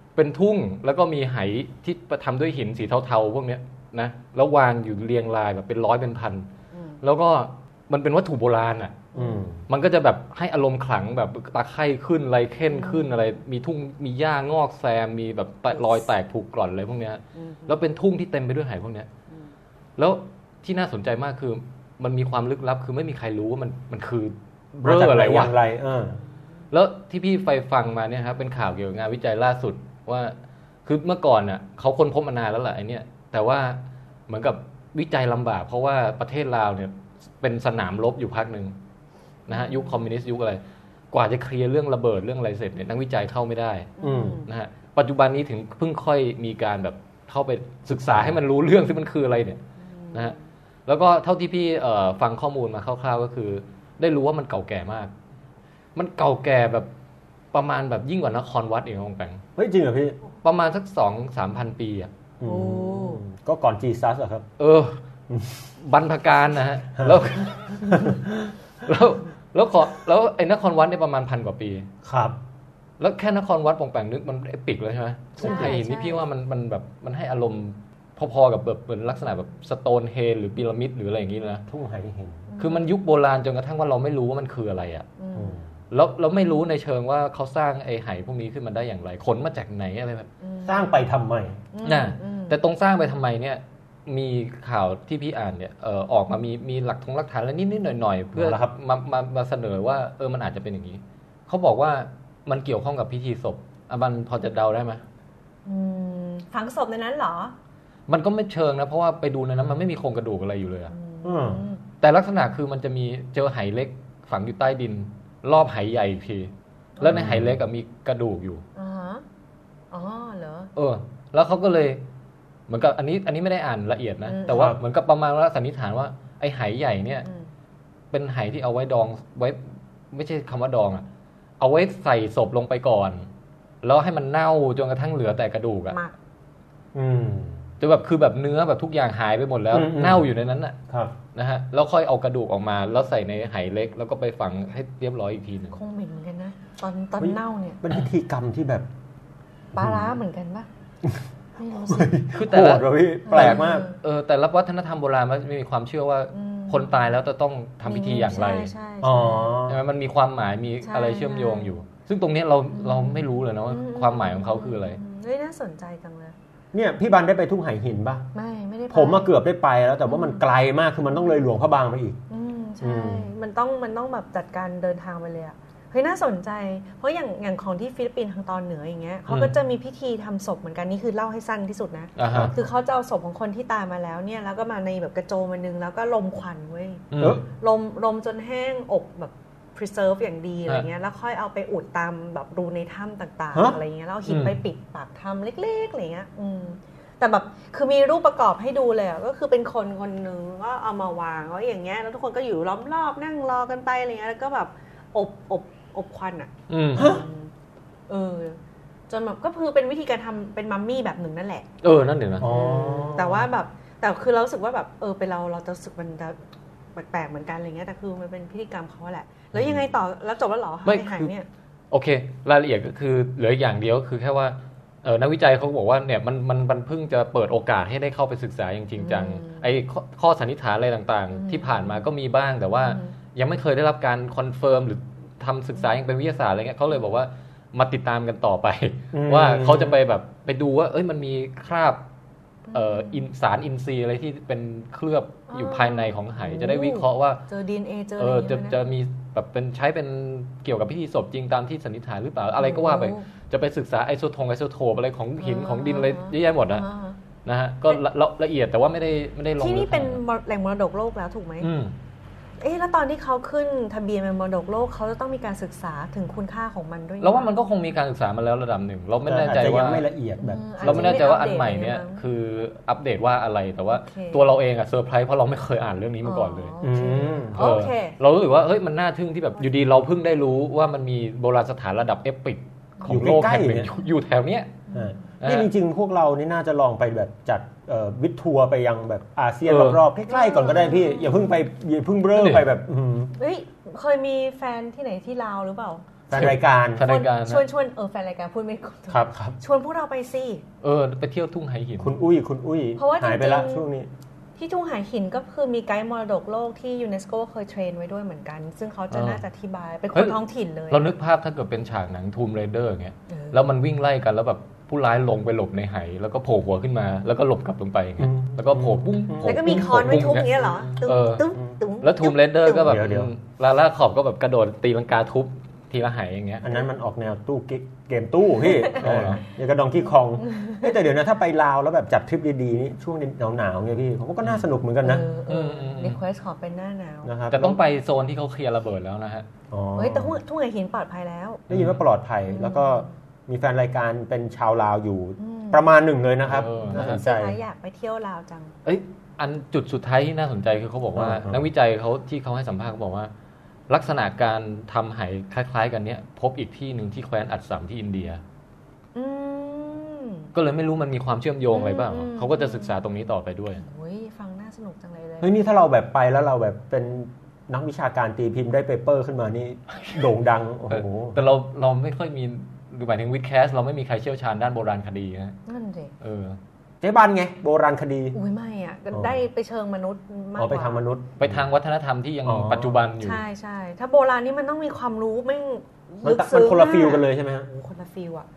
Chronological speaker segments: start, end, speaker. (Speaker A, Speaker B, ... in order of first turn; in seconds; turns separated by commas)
Speaker A: 0.1-6.5, Speaker B: 6.7-7.0, Speaker A: 7.0-9.1, Speaker B: 9.1-9.4, Speaker C: 9.1-9.6, Speaker A: 9.7-19.1, Speaker B: 12.7-13.1, Speaker B: 17.4-17.7, Speaker A: 20.0-25.5, Speaker C: 24.8-26.2, Speaker A: 26.7-38.7, Speaker A: 39.5-43.9, Speaker B: 39.5-40.0, Speaker B: 44.0-44.5, Speaker C: 44.0-44.4, Speaker A: 44.4-49.6, Speaker C: 47.9-48.4, Speaker B: 49.8-50.4, Speaker A: 50.9-55.1, Speaker A: 55.9-56.9, Speaker A: 57.5-59.4, Speaker C: 59.6-60.2, Speaker A: 60.4-62.1, Speaker C: 62.4-64.5, Speaker B: 62.4-63.2, Speaker A: 64.6-65.0, Speaker A: 65.8-68.2, Speaker C: 67.0-67.2, Speaker C: 67.9-68.5, Speaker A: 68.8-71.9, Speaker C: 72.0-72.4, Speaker A: 73.0-81.6, Speaker B: 75.4-76.2, Speaker C: 75.4-75.7, Speaker C: 81.7-82.5, Speaker B: 82.5-82.8, Speaker A: 82.6-85.1, Speaker B: 85.2-85.6, Speaker C: 85.3-85.7, Speaker A: 85.9-90.3, Speaker B: 90.4-90.9, Speaker C: 90.6-91.6, Speaker B: 91.7-92.6, Speaker A: 91.8-105.0, Speaker C: 98.3-98.7, Speaker B: 105.6-107.5, Speaker A: 108.1-110.9, Speaker B: 110.9-111.8, Speaker C: 111.2-111.6, Speaker A: 112.0-118.6, Speaker B: 117.0-117.2, Speaker C: 117.0-117.6, Speaker B: 118.8-119.2, Speaker B: 119.9-120.7, Speaker A: 120.8-122.0, Speaker A: 122.7-127.2, Speaker B: 124.2-124.7, Speaker C: 124.5-124.8, Speaker B: 127.2-127.5, Speaker A: 128.1-129.6, Speaker A: 130.1-131.0, Speaker A: 131.6-133.2, Speaker A: 133.8-136.0, Speaker C: 136.9-137.6, Speaker A: 137.8-140.8, Speaker C: 139.7-140.2, Speaker C: 140.9-141.1, Speaker A: 141.3-145.8, Speaker B: 145.7-147.8, Speaker C: 147.2-148.8, Speaker C: 149.7-150.1, Speaker B: 149.7-150.7, Speaker B: 151.6-152.1, Speaker C: 151.8-153.9, Speaker A: 152.3-158.7, Speaker B: 153.2-154.0, Speaker B: 156.3-157.0, Speaker B: 157.8-159.6, Speaker C: 159.0-159.8, Speaker A: 159.7-165.0, Speaker B: 160.8-161.7, Speaker B: 162.7-166.3, Speaker C: 166.7-168.3, Speaker B: 168.3-169.3, Speaker C: 168.9-172.2, Speaker B: 170.1-170.4, Speaker B: 172.3-187.0, Speaker C: 172.8-173.3, Speaker A: 179.3-179.5, Speaker A: 182.2-182.5, Speaker A: 187.1-187.4, Speaker B: 187.6-207.5, Speaker C: 193.5-193.8, Speaker A: 194.3-194.6, Speaker A: 206.7-207.2, Speaker C: 206.9-207.2, Speaker B: 208.1-211.7, Speaker A: 211.8-212.5, Speaker C: 212.4-213.5, Speaker B: 212.4-216.4, Speaker B: 216.9-221.5, Speaker A: 220.8-221.3, Speaker A: 221.9-242.0, Speaker B: 229.0-229.6, Speaker B: 231.3-231.9, Speaker B: 232.8-233.1, Speaker C: 239.1-240.0, Speaker B: 242.7-243.2, Speaker A: 242.7-247.4, Speaker B: 245.5-248.8, Speaker A: 248.2-256.8, Speaker B: 252.6-253.2, Speaker B: 255.4-257.2, Speaker A: 257.4-260.2, Speaker B: 259.6-261.7, Speaker A: 261.6-261.9, Speaker B: 262.6-267.5, Speaker A: 267.2-270.0, Speaker C: 269.2-271.2, Speaker B: 270.4-272.2, Speaker A: 270.8-276.7, Speaker B: 274.0-274.4, Speaker B: 276.2-278.1, Speaker C: 276.8-277.7, Speaker A: 277.5-284.8, Speaker C: 283.1-283.9, Speaker B: 284.9-285.2, Speaker C: 284.9-293.3, Speaker A: 285.4-285.7, Speaker A: 289.6-290.0, Speaker B: 290.3-291.5, Speaker A: 292.3-292.6, Speaker B: 293.4-296.0, Speaker C: 296.3-297.0, Speaker A: 296.3-297.6, Speaker B: 297.0-300.6, Speaker C: 299.1-299.6, Speaker A: 300.8-302.1, Speaker C: 302.0-304.1, Speaker B: 303.0-303.9, Speaker B: 304.6-311.1, Speaker A: 309.1-309.4, Speaker A: 310.1-310.4, Speaker A: 310.9-321.4, Speaker B: 313.3-313.7, Speaker C: 318.2-320.9, Speaker B: 319.4-323.0, Speaker A: 322.0-326.7, Speaker C: 322.8-323.3, Speaker C: 326.6-335.2, Speaker B: 328.6-329.0, Speaker A: 328.9-329.4, Speaker B: 330.4-330.8, Speaker B: 335.0-337.3, Speaker A: 335.5-336.2, Speaker C: 337.2-337.8, Speaker A: 337.5-339.4, Speaker C: 339.7-340.4, Speaker B: 339.9-341.6, Speaker A: 341.7-342.0, Speaker C: 341.7-347.6, Speaker B: 342.5-343.1, Speaker B: 345.4-345.8, Speaker A: 346.5-347.2, Speaker B: 346.8-348.7, Speaker A: 348.8-353.3, Speaker C: 351.1-351.7, Speaker A: 353.9-358.4, Speaker B: 359.1-360.5, Speaker A: 360.5-363.8, Speaker B: 361.7-362.9, Speaker B: 363.8-365.5, Speaker C: 365.4-371.4, Speaker A: 370.9-375.6, Speaker B: 375.7-376.1, Speaker A: 376.2-376.6, Speaker C: 377.0-378.4, Speaker B: 378.3-381.0, Speaker C: 379.1-379.4, Speaker C: 380.6-381.6, Speaker A: 381.4-383.4, Speaker C: 382.4-383.0, Speaker B: 383.2-388.4, Speaker C: 386.2-387.7